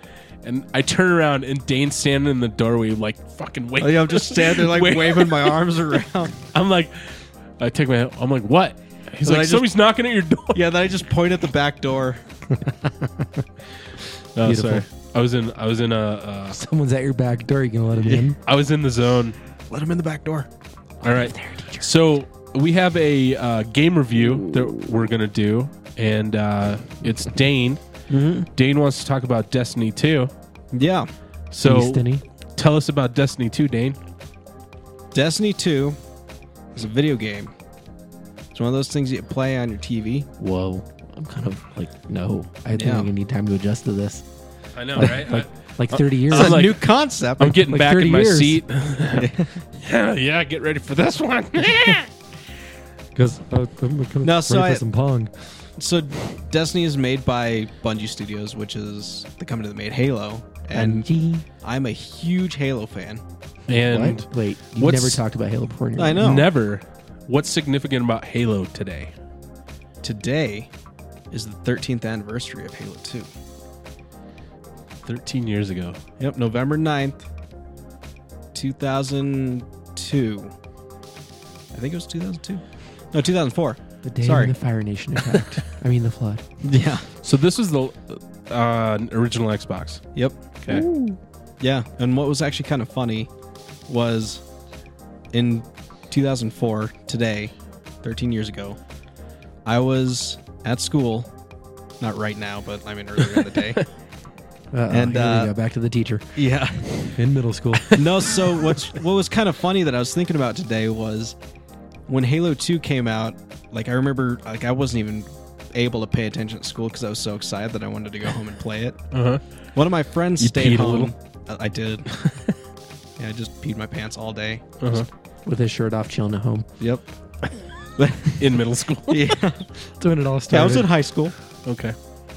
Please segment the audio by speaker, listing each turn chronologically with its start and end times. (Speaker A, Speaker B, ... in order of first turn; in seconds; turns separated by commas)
Speaker A: 0.4-5.6, Speaker B: 3.8-6.3, Speaker A: 6.4-10.7, Speaker B: 9.2-9.7, Speaker B: 10.5-12.2, Speaker C: 12.6-13.2, Speaker A: 14.3-16.6, Speaker C: 14.4-14.8, Speaker C: 16.5-18.4, Speaker A: 18.4-19.4, Speaker B: 19.7-20.5, Speaker C: 21.0-21.9, Speaker A: 21.0-27.8, Speaker B: 28.1-28.5, Speaker A: 28.6-30.3, Speaker B: 30.7-31.1, Speaker A: 31.5-32.0, Speaker C: 31.6-32.2, Speaker A: 32.5-34.0, Speaker B: 35.1-36.0, Speaker B: 36.7-37.5, Speaker B: 38.5-40.3, Speaker C: 40.4-44.2, Speaker B: 42.7-43.1, Speaker A: 44.8-52.1, Speaker C: 44.9-46.6, Speaker B: 46.3-47.6, Speaker C: 47.6-48.6, Speaker B: 49.1-49.6, Speaker C: 53.1-55.3, Speaker B: 54.2-54.8, Speaker B: 55.8-61.1, Speaker C: 60.7-61.4, Speaker B: 61.6-63.2, Speaker A: 63.7-64.2, Speaker C: 63.9-66.3, Speaker A: 64.8-65.2, Speaker B: 66.0-66.5, Speaker A: 66.2-69.1, Speaker B: 70.0-70.7, Speaker B: 71.3-73.3, Speaker A: 75.0-76.0, Speaker B: 76.2-77.2, Speaker B: 78.5-80.5, Speaker B: 81.7-84.5, Speaker C: 84.0-86.4, Speaker B: 86.6-87.1, Speaker A: 87.2-90.0, Speaker C: 90.7-91.2, Speaker B: 91.6-93.3, Speaker B: 93.9-94.4, Speaker B: 95.3-98.8, Speaker B: 99.6-101.3, Speaker B: 102.0-103.8, Speaker C: 104.7-106.3, Speaker B: 104.9-105.5, Speaker B: 106.3-107.1, Speaker C: 107.1-108.0, Speaker B: 107.9-111.3, Speaker B: 112.1-119.0, Speaker A: 119.1-119.4, Speaker B: 119.7-122.3, Speaker A: 120.4-121.1, Speaker B: 123.2-125.0, Speaker A: 124.8-125.1, Speaker C: 125.5-126.7, Speaker B: 126.8-127.0, Speaker B: 128.0-129.7, Speaker A: 128.4-129.3, Speaker C: 130.0-130.9, Speaker B: 130.5-131.3, Speaker A: 131.7-131.9